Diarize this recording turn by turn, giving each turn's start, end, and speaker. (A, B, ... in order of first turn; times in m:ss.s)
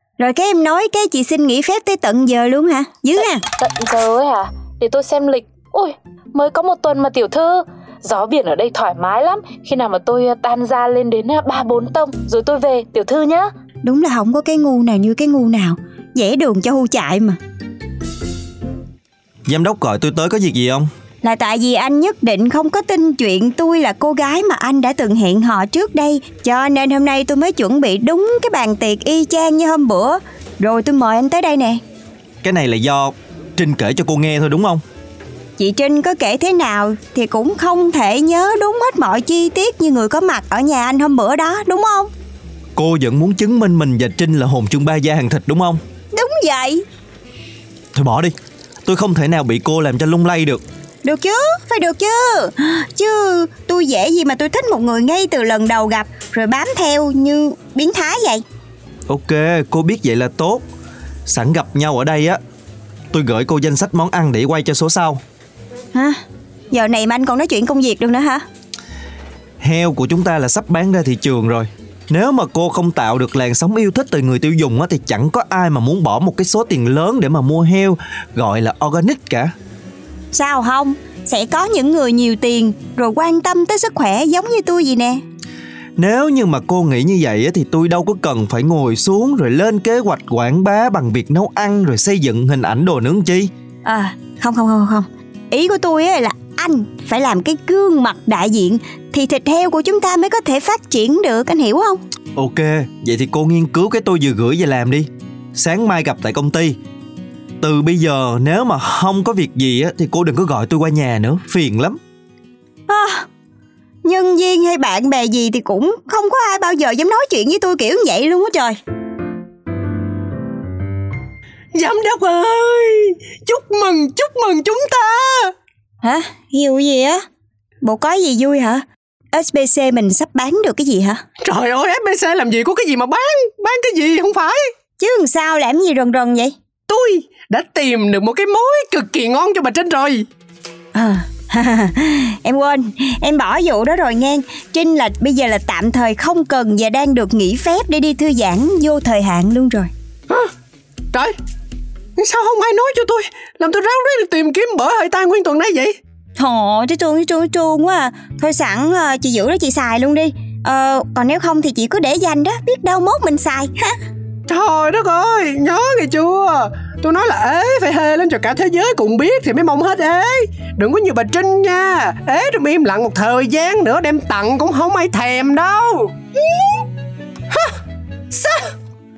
0:00.2-0:03.4 A
0:03.6-0:13.5 B
0:13.8-0:17.4 A
0:19.5-0:20.9 C
0:21.2-0:31.8 A
0:32.4-0:34.8 C
0:35.6-0:42.1 A
0:42.8-0:45.8 C
0:46.1-0:46.8 A
0:48.0-0:48.3 C
0:48.9-0:50.6 C
0:51.0-0:58.4 A
0:59.1-1:00.6 C
1:01.3-1:02.4 C
1:03.1-1:05.2 C
1:06.7-1:08.4 A
1:09.6-1:19.5 C
1:20.3-1:25.2 A
1:26.0-1:33.5 C
1:33.8-1:42.0 A
1:42.4-1:46.8 C
1:47.6-1:52.0 C
1:52.9-1:53.3 A
1:54.0-1:58.8 A
2:01.7-2:05.5 D
2:06.0-2:07.2 A
2:07.8-2:11.2 A
2:11.4-2:14.6 D
2:15.0-2:16.6 A
2:16.9-2:20.2 D
2:21.0-2:29.9 A
2:32.2-2:36.0 D
2:36.4-2:43.9 A
2:44.5-2:56.1 D
2:58.3-2:58.6 D